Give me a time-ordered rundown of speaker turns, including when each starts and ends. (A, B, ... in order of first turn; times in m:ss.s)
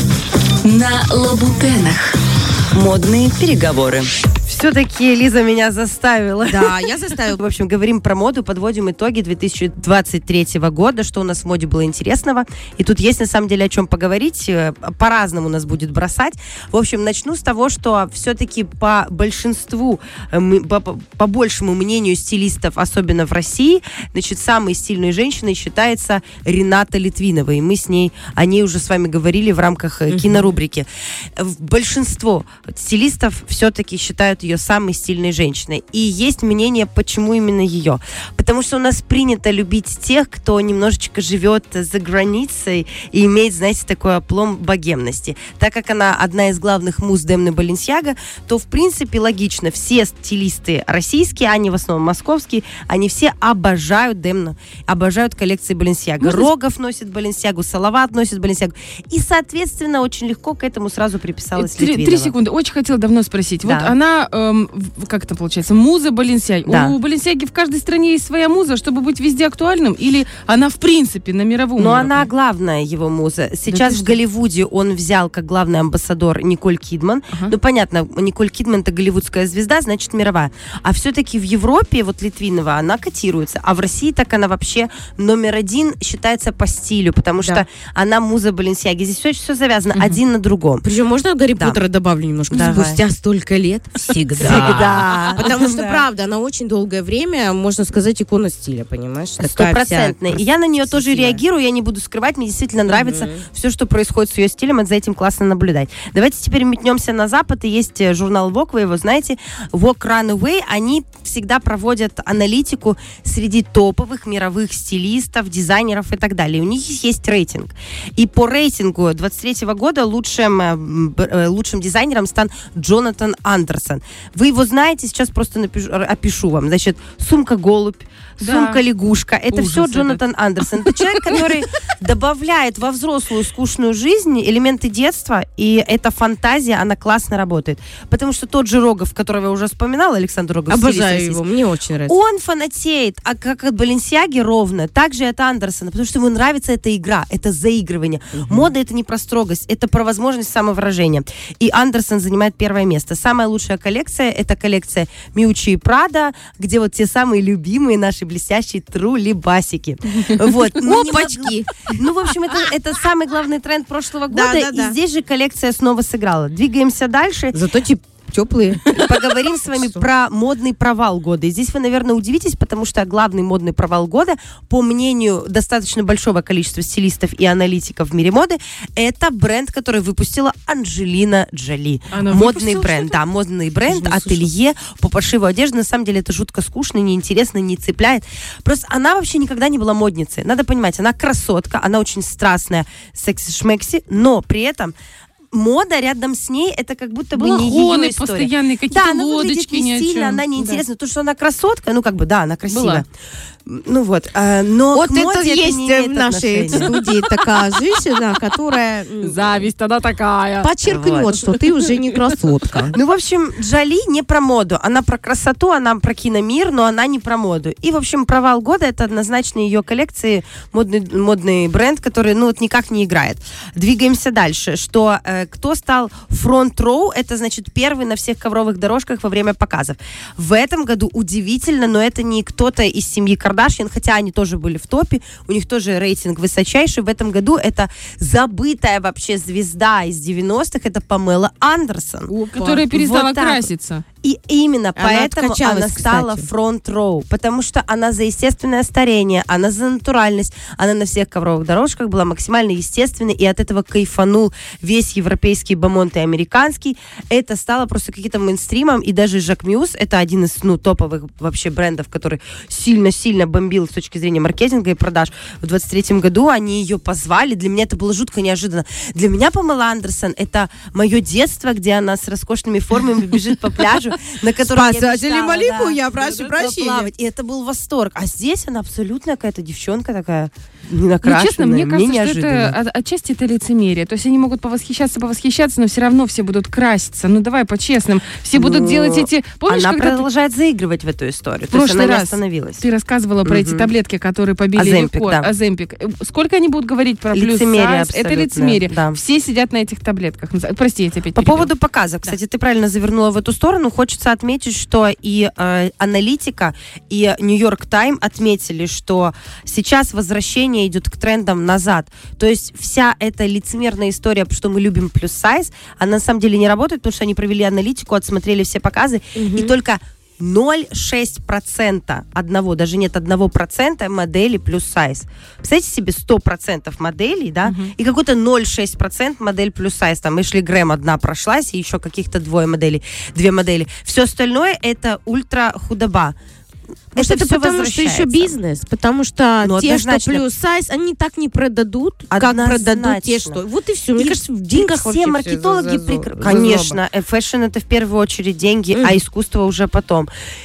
0:00.6-0:02.1 A
0:02.7-0:04.1 A
0:04.5-1:02.3 B
0:06.5-0:07.4 C
0:30.1-0:30.6 C
0:56.2-0:56.5 D
1:01.6-1:12.3 D
1:03.6-1:03.9 B
1:06.7-1:07.0 B
1:11.8-1:30.9 B
1:13.7-1:14.2 D
1:27.4-1:27.6 C
1:30.8-1:41.4 C
1:32.5-1:33.0 B
1:34.4-1:36.0 B
1:39.4-2:21.4 B
1:42.9-1:43.4 C
2:08.4-2:08.8 D
2:09.5-2:10.2 D
2:10.9-2:11.4 D
2:20.7-2:22.2 C
2:22.1-2:47.6 B
2:28.4-2:28.7 C
2:40.8-2:41.8 C
2:44.3-2:45.0 C
2:47.5-2:49.1 C
2:49.0-3:15.0 B
2:49.6-2:50.1 C
3:02.1-3:03.2 D
3:03.9-3:04.5 C
3:15.5-3:23.1 B
3:17.4-3:20.8 D
3:22.7-3:23.0 D
3:23.7-3:27.0 B
3:24.9-3:29.6 C
3:29.2-3:30.7 D
3:30.6-3:33.0 C
3:30.9-3:31.4 B
3:32.9-4:02.3 B
4:02.3-4:04.0 D
4:02.6-4:02.9 C
4:02.9-4:03.7 B
4:04.2-4:42.8 B
4:05.0-4:06.5 C
4:34.6-4:37.1 C
4:41.2-4:50.3 D
4:48.5-4:52.8 B
4:51.7-5:01.7 D
4:53.4-4:53.9 B
4:54.7-4:55.5 B
4:57.3-4:59.2 B
5:01.3-5:36.4 B
5:19.4-5:19.7 C
5:27.6-5:27.9 D
5:37.1-5:38.6 B
5:37.2-5:47.0 C
5:39.6-5:40.4 B
5:42.3-5:43.6 B
5:44.2-5:50.3 B
5:49.0-5:49.2 C